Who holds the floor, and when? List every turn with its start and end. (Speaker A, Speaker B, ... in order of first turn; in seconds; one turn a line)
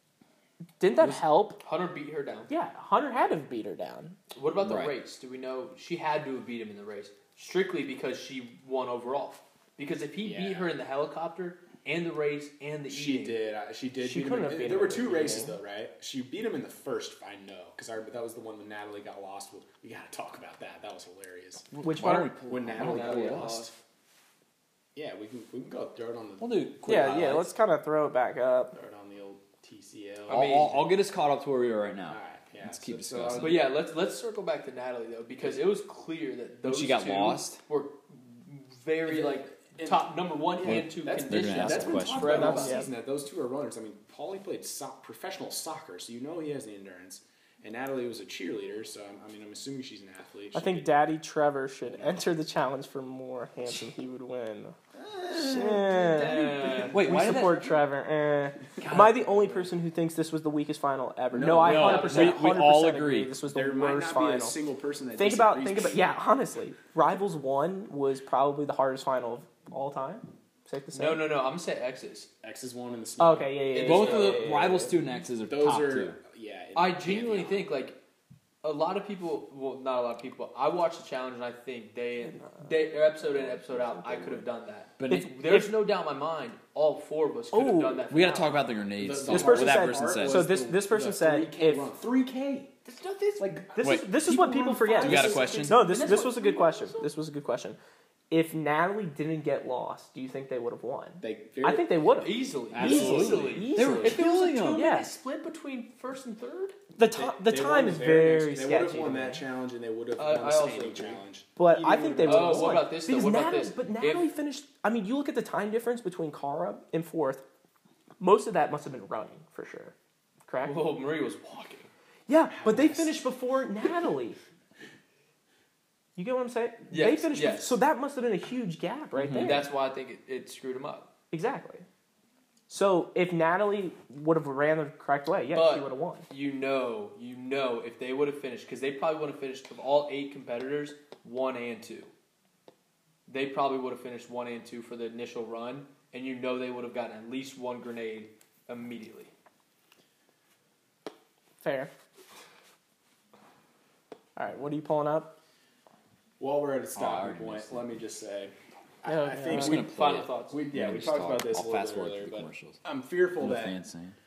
Speaker A: 0.8-1.6
Speaker B: 1.6-2.5
Speaker A: 2.5-4.2
Speaker B: 4.3-13.4
Speaker C: 4.6-4.9
Speaker D: 10.2-10.7
Speaker D: 12.9-21.7
Speaker A: 14.0-15.6
Speaker C: 21.7-23.6
Speaker A: 21.8-22.3
Speaker D: 22.5-23.8
Speaker B: 22.7-23.7
Speaker D: 24.9-26.7
Speaker C: 26.4-27.5
Speaker A: 26.9-28.7
Speaker D: 28.7-30.8
Speaker C: 30.3-33.6
Speaker B: 30.3-30.8
Speaker D: 32.1-33.7
Speaker B: 33.4-42.9
Speaker C: 36.6-37.6
Speaker D: 39.0-50.9
Speaker C: 40.6-42.6
Speaker A: 42.3-42.9
Speaker A: 50.5-54.7
Speaker D: 51.9-52.2
Speaker D: 54.9-57.6
Speaker A: 55.3-64.6
Speaker B: 56.0-57.2
Speaker C: 56.9-57.6
Speaker C: 58.8-59.1
Speaker D: 61.3-62.4
Speaker C: 61.6-63.3
Speaker D: 63.5-66.0
Speaker A: 65.2-71.3
Speaker B: 70.9-72.3
Speaker D: 72.4-74.4
Speaker A: 73.2-75.0
Speaker C: 73.7-76.2
Speaker D: 75.4-77.7
Speaker B: 76.7-78.0
Speaker B: 78.6-88.7
Speaker D: 83.2-84.5
Speaker C: 85.0-85.3
Speaker A: 85.1-85.8
Speaker A: 87.5-88.1
Speaker C: 88.1-90.5
Speaker D: 89.0-92.7
Speaker A: 89.3-91.9
Speaker B: 92.9-93.6
Speaker D: 93.4-96.4
Speaker A: 93.7-97.8
Speaker C: 93.8-94.1
Speaker C: 95.0-96.0
Speaker B: 95.5-97.1
Speaker A: 98.3-105.1
Speaker D: 101.2-102.0
Speaker B: 102.2-106.8
Speaker D: 102.7-103.4
Speaker C: 102.7-104.8
Speaker A: 107.0-109.4
Speaker D: 107.1-112.8
Speaker B: 110.2-111.2
Speaker A: 111.6-117.4
Speaker B: 111.8-114.3
Speaker A: 118.2-119.9
Speaker A: 120.5-120.8
Speaker B: 120.6-121.9
Speaker A: 122.3-124.4
Speaker D: 122.5-123.1
Speaker A: 126.2-129.7
Speaker B: 126.9-127.8
Speaker C: 129.2-129.6
Speaker B: 129.3-131.1
Speaker A: 131.3-131.8
Speaker A: 132.7-136.2
Speaker B: 135.5-142.1
Speaker B: 143.3-149.3
Speaker A: 151.6-151.9
Speaker A: 154.3-155.3
Speaker D: 156.4-163.7
Speaker C: 156.9-157.8
Speaker A: 159.0-159.9
Speaker C: 159.5-162.8
Speaker B: 159.6-160.6
Speaker C: 163.4-164.2